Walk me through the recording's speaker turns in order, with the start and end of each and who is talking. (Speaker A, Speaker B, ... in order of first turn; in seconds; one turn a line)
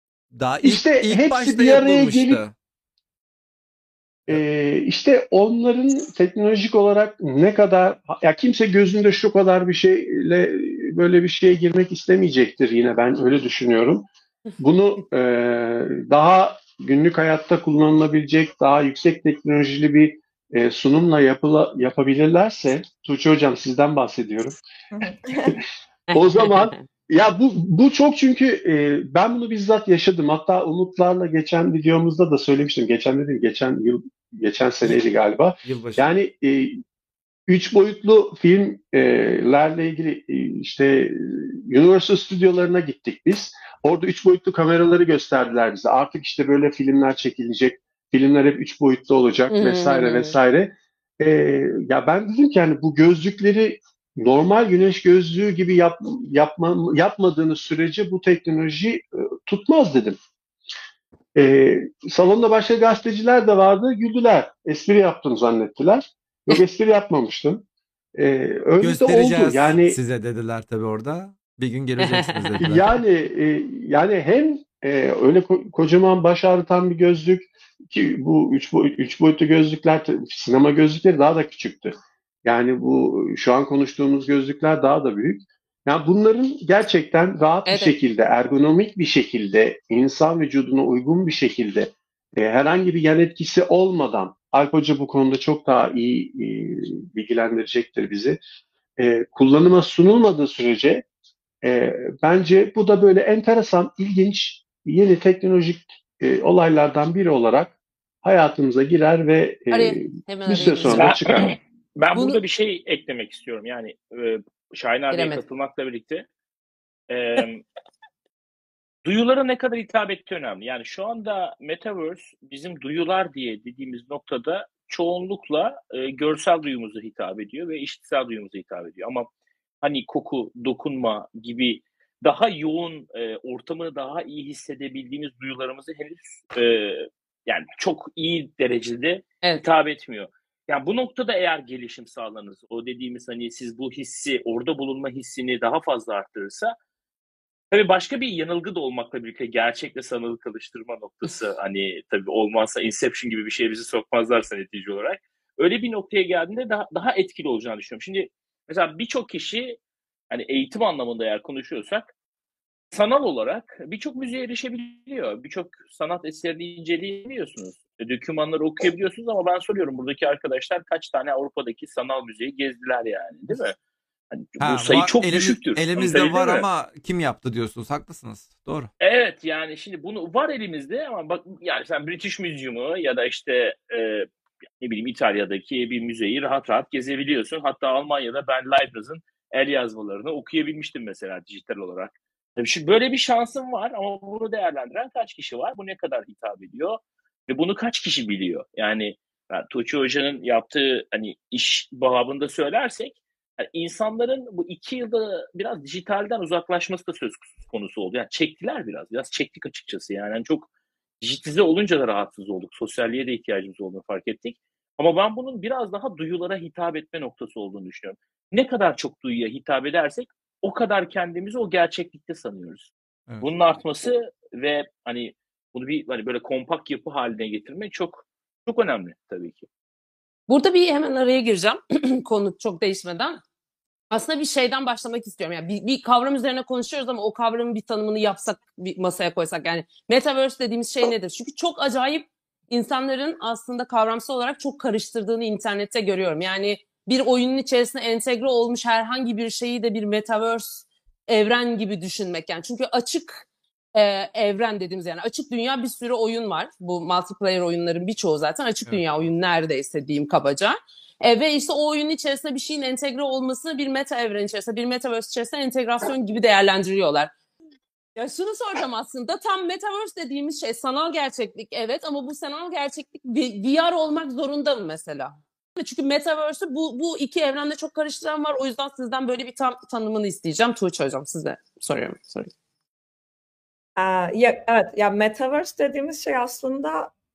Speaker A: 0.3-2.5
Speaker B: 0.6-2.4
Speaker B: 4.3-14.1
Speaker B: 14.6-24.6
Speaker C: 24.9-25.6
Speaker D: 26.1-26.8
Speaker B: 26.1-36.8
Speaker A: 35.6-36.1
Speaker B: 37.5-60.2
Speaker D: 49.5-50.3
Speaker B: 61.3-67.6
Speaker B: 68.2-70.0
Speaker A: 68.8-72.9
Speaker D: 72.0-72.5
Speaker B: 72.6-98.4
Speaker D: 87.7-87.9
Speaker B: 99.0-101.0
Speaker B: 101.6-111.5
Speaker D: 109.7-111.2
Speaker E: 110.9-116.2
Speaker D: 112.1-112.4
Speaker D: 115.1-115.4
Speaker E: 117.1-117.6
Speaker E: 119.0-129.3
Speaker E: 129.8-146.7
Speaker E: 147.7-159.8
Speaker E: 160.3-162.1
Speaker E: 162.9-173.8
Speaker E: 174.3-176.7
Speaker A: 174.6-178.9
Speaker E: 179.0-184.3
Speaker E: 184.8-210.7
Speaker E: 211.2-229.7
Speaker D: 230.5-233.4
Speaker D: 234.1-267.3
Speaker D: 268.1-282.5
Speaker C: 284.0-287.1